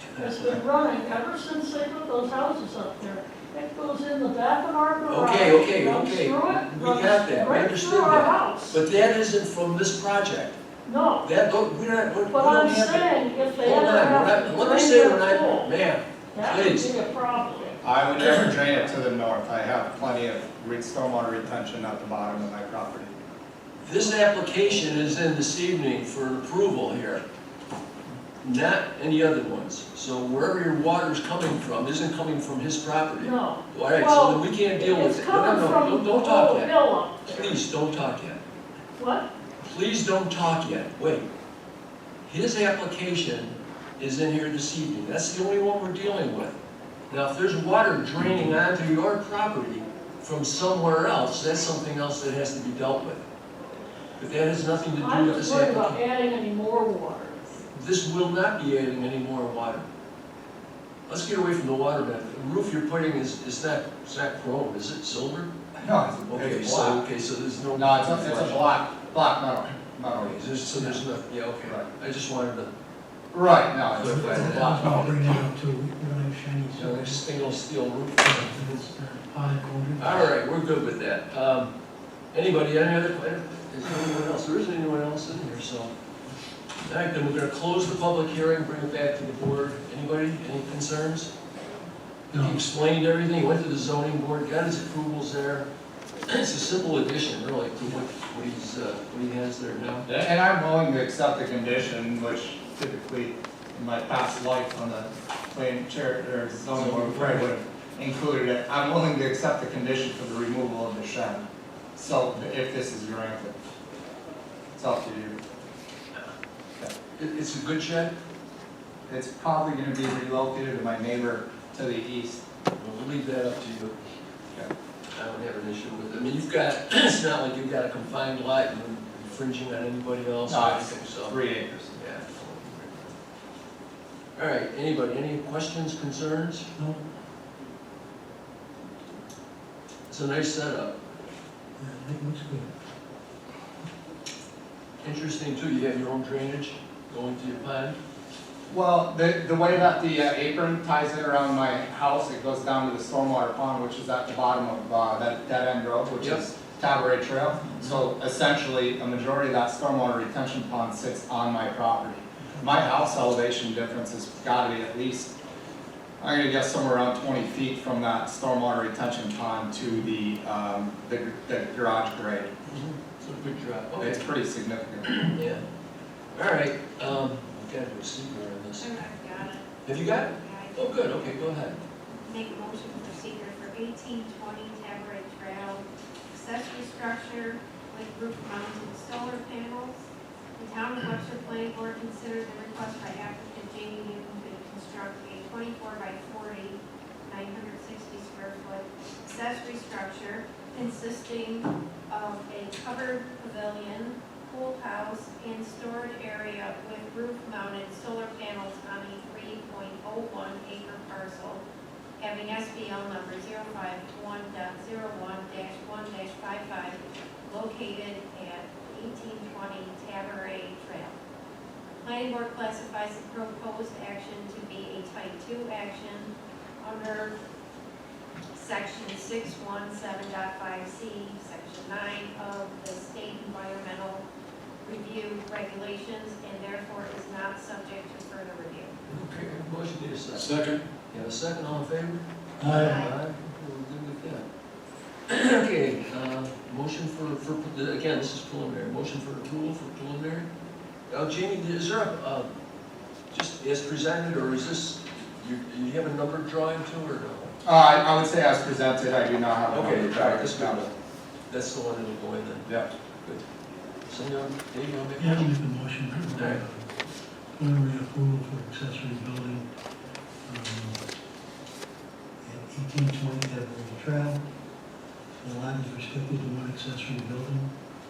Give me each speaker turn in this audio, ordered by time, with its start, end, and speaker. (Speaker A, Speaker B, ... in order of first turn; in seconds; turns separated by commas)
Speaker A: 0.2-8.8, Speaker B: 5.1-10.6, Speaker A: 10.8-11.3, Speaker B: 11.2-16.9, Speaker A: 12.3-15.7, Speaker A: 16.3-17.8, Speaker C: 17.8-23.1, Speaker B: 23.8-27.2, Speaker B: 28.4-38.4, Speaker A: 33.2-37.6, Speaker A: 39.0-39.3, Speaker B: 39.6-41.3, Speaker B: 42.2-46.6, Speaker B: 47.1-53.2, Speaker B: 54.2-56.0, Speaker A: 55.0-57.6, Speaker B: 57.7-59.9, Speaker B: 61.1-65.5, Speaker C: 65.8-67.0, Speaker B: 66.3-68.8, Speaker C: 67.8-70.4, Speaker B: 70.2-72.7, Speaker C: 73.3-75.1, Speaker B: 74.0-75.2, Speaker D: 74.0-77.2, Speaker B: 76.8-78.8, Speaker D: 78.2-80.3, Speaker B: 80.0-81.7, Speaker B: 82.3-85.9, Speaker B: 86.8-91.3, Speaker B: 92.3-95.7, Speaker D: 92.3-92.6, Speaker B: 96.3-100.1, Speaker C: 100.0-111.4, Speaker B: 106.7-107.5, Speaker C: 112.0-113.6, Speaker C: 114.8-115.4, Speaker B: 117.2-118.1, Speaker C: 119.1-122.4, Speaker B: 122.8-124.0, Speaker B: 125.1-133.1, Speaker C: 130.5-131.9, Speaker B: 134.3-136.7, Speaker D: 136.8-137.0, Speaker B: 140.1-140.9, Speaker D: 141.8-142.7, Speaker B: 145.0-148.0, Speaker C: 148.7-165.3, Speaker C: 166.2-172.5, Speaker B: 172.7-174.2, Speaker C: 174.0-175.2, Speaker B: 175.0-175.6, Speaker B: 176.3-179.1, Speaker E: 178.8-181.5, Speaker B: 179.8-181.8, Speaker E: 182.1-211.6, Speaker E: 212.2-221.2, Speaker E: 222.0-227.3, Speaker E: 228.5-234.2, Speaker E: 234.8-238.9, Speaker B: 239.1-244.4, Speaker C: 240.4-240.8, Speaker D: 242.6-243.0, Speaker E: 242.7-243.1, Speaker B: 245.3-250.5, Speaker B: 251.1-252.5, Speaker B: 253.3-257.6, Speaker C: 257.6-260.9, Speaker B: 259.7-260.9, Speaker B: 261.5-263.4, Speaker B: 264.1-265.5, Speaker D: 265.2-266.9, Speaker B: 266.3-266.6, Speaker D: 267.6-269.7, Speaker D: 270.4-271.0, Speaker D: 272.4-274.4, Speaker D: 275.4-277.7